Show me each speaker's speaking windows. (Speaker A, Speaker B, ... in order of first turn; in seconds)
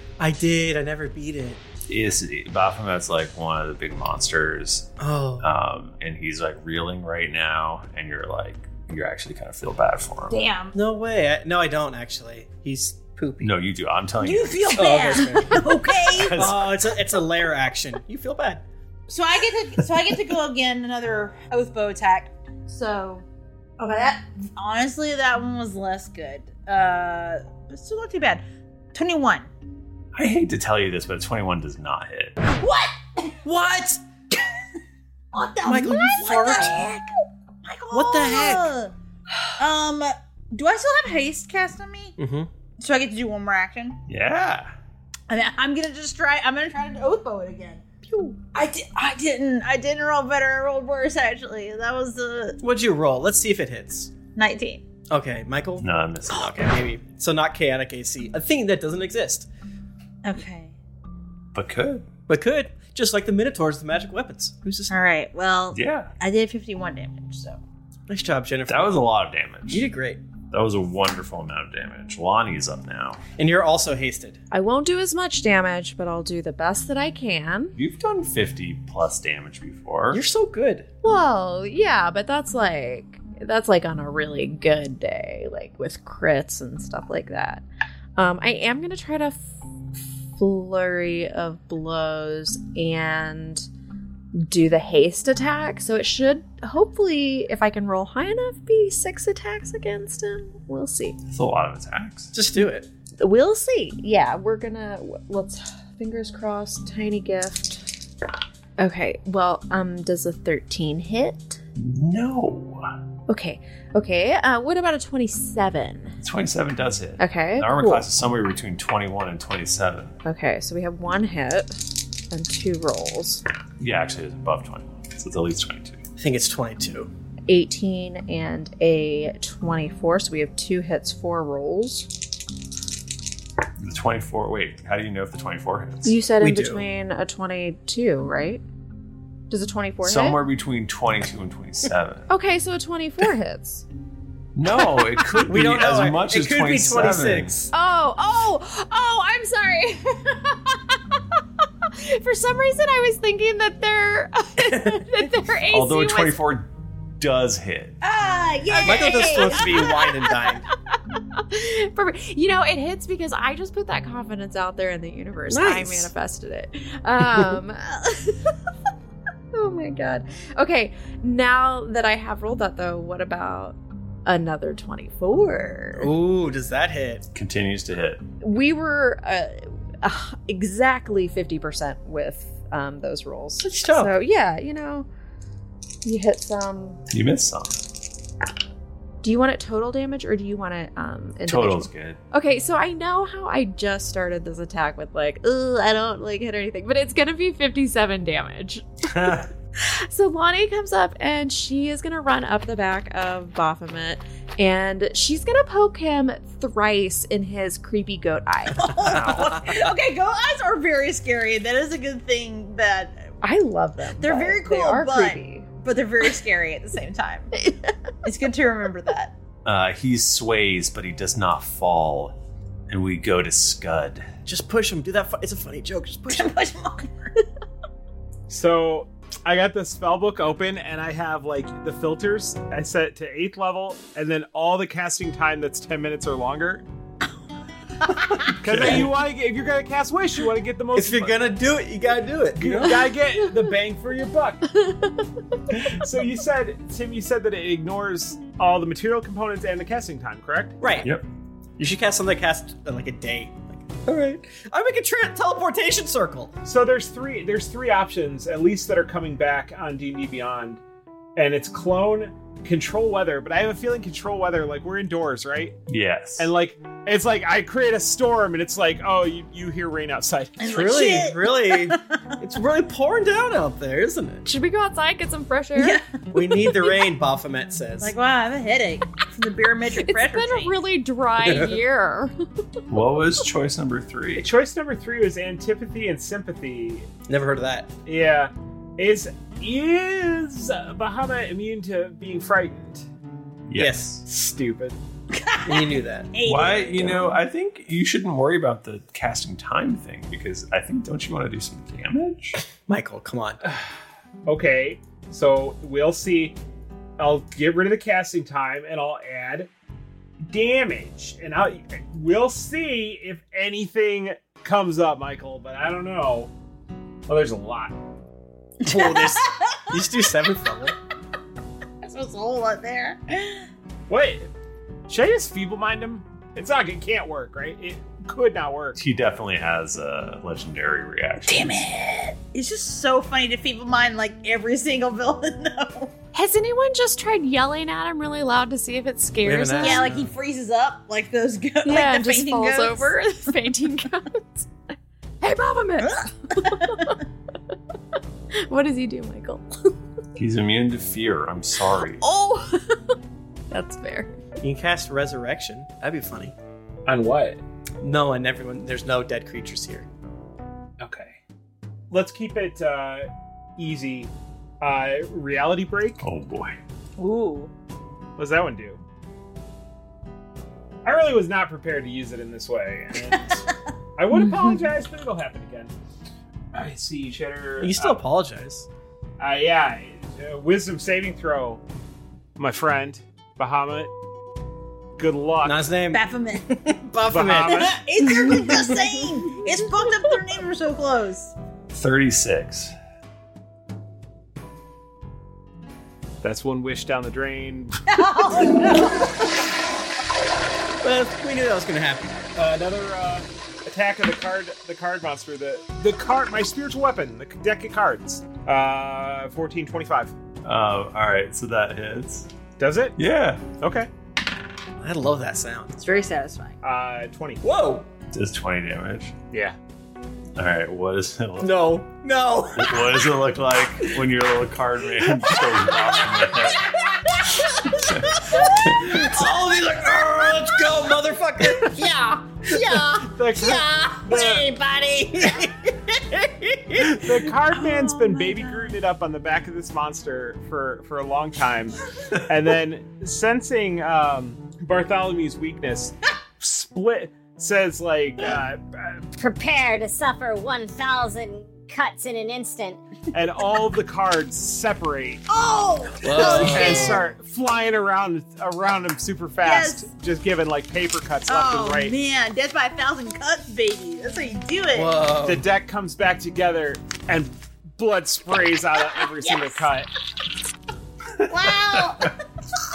Speaker A: 0.2-1.6, 5.0-5.4, 10.7-13.5, 14.7-18.6, 33.4-34.0, 35.6-36.9, 37.9-38.7, 42.2-42.5, 48.1-48.4, 52.6-54.1, 55.1-59.5, 62.3-64.9, 68.1-69.0, 69.7-70.2, 73.4-74.4, 80.1-80.9, 102.3-102.9, 126.2-127.1, 136.4-136.8, 145.4-147.7, 158.8-160.7, 165.5-166.1, 176.0-177.2, 183.6-184.1, 209.3-209.6, 224.4-226.6, 238.7-239.0, 240.9-243.1, 250.8-251.1, 251.8-256.5, 270.6-274.4, 276.3-278.1, 281.4-281.7, 287.3-287.9, 293.8-294.2, 295.6-296.3, 302.9-303.6, 318.8-320.9, 339.4-340.3, 354.6-356.5, 358.0-360.1, 377.8-378.9, 385.6-388.9, 401.0-402.5, 415.0-415.9, 417.6-418.1, 421.6-423.1, 429.0-432.1, 432.7-433.2, 435.4-435.7, 436.3-437.1, 456.2-457.2, 464.9-465.6
Speaker B: 1.9-10.4, 13.4-15.2, 16.1-16.7, 30.1-32.4, 44.1-44.7, 55.8-56.5, 61.5-62.0, 65.7-66.1, 68.7-69.9, 70.5-73.2, 77.8-80.2, 101.3-102.3, 111.8-112.9, 116.2-120.2, 123.8-126.0, 133.8-136.2, 140.0-142.3, 144.6-147.5, 155.7-158.0, 177.3-178.2, 187.1-187.8, 191.5-192.2, 199.1-199.4, 209.2-209.4, 219.6-222.3, 222.9-224.3, 238.7-239.0, 265.9-266.5, 282.9-284.5, 293.7-294.1, 296.4-302.6, 328.9-331.9, 350.4-352.2, 366.2-366.8, 391.9-392.9, 410.6-412.5, 413.2-413.7, 418.3-419.3, 420.6-421.9, 422.8-426.9, 428.0-429.2
Speaker C: 10.3-10.7, 14.2-16.5, 19.1-23.2, 23.8-29.5, 32.5-33.3, 35.3-37.1, 37.6-38.9, 39.6-42.1, 42.8-44.0, 45.3-52.6, 54.3-54.8, 60.2-60.8, 64.9-67.6, 158.0-159.9, 208.8-213.3, 214.2-217.5, 218.2-219.3, 226.3-227.3, 270.6-272.0, 275.8-276.2, 278.0-280.8, 295.3-297.2, 318.8-319.9, 322.0-323.7, 331.4-336.1, 339.8-343.3, 346.0-347.1, 367.2-367.7, 373.3-373.6, 386.1-386.7, 387.8-391.5, 398.1-399.4, 416.0-416.8, 428.3-428.7, 437.7-439.0, 455.5-457.2, 459.6-460.1, 461.5-465.2, 469.1-469.9, 471.5-472.3
Speaker D: 74.5-77.7, 81.0-87.6, 88.2-93.7, 94.3-101.2, 103.2-107.9, 108.8-111.6, 113.3-116.2, 117.2-118.0, 120.2-123.4, 127.5-132.1, 136.0-138.6, 139.5-140.4, 142.3-143.8, 147.7-151.0, 151.8-156.4, 158.7-160.0, 161.3-168.5, 169.5-176.1, 178.4-185.1, 186.0-187.0, 189.2-208.9, 213.4-215.7, 217.6-217.9, 244.7-245.3, 274.4-276.0, 280.0-282.3, 336.3-340.1, 341.8-344.6, 345.4-347.1, 348.6-349.9, 352.2-353.0, 353.7-354.4, 374.5-374.8
Speaker E: 228.5-236.8, 238.6-241.5, 242.6-244.7, 245.9-250.8, 256.6-260.8, 261.4-265.8, 266.4-270.7, 284.4-287.1, 288.1-293.0, 294.2-295.0, 303.6-303.9, 304.4-306.6, 307.2-309.7, 310.4-316.5, 317.3-317.9, 324.1-324.5, 325.1-329.0, 357.1-357.6, 361.0-361.4, 362.1-366.2, 368.4-369.0, 371.0-373.6, 374.2-375.9, 376.7-378.2, 379.4-381.8, 382.6-384.1, 385.2-385.9, 387.3-388.0, 396.4-398.0, 402.5-410.3, 412.8-413.2, 413.8-414.1, 416.8-417.6, 433.2-434.6, 437.1-449.3, 453.3-455.4, 456.4-462.1, 465.4-470.1
Speaker F: 432.0-433.1, 433.6-435.4, 449.4-453.0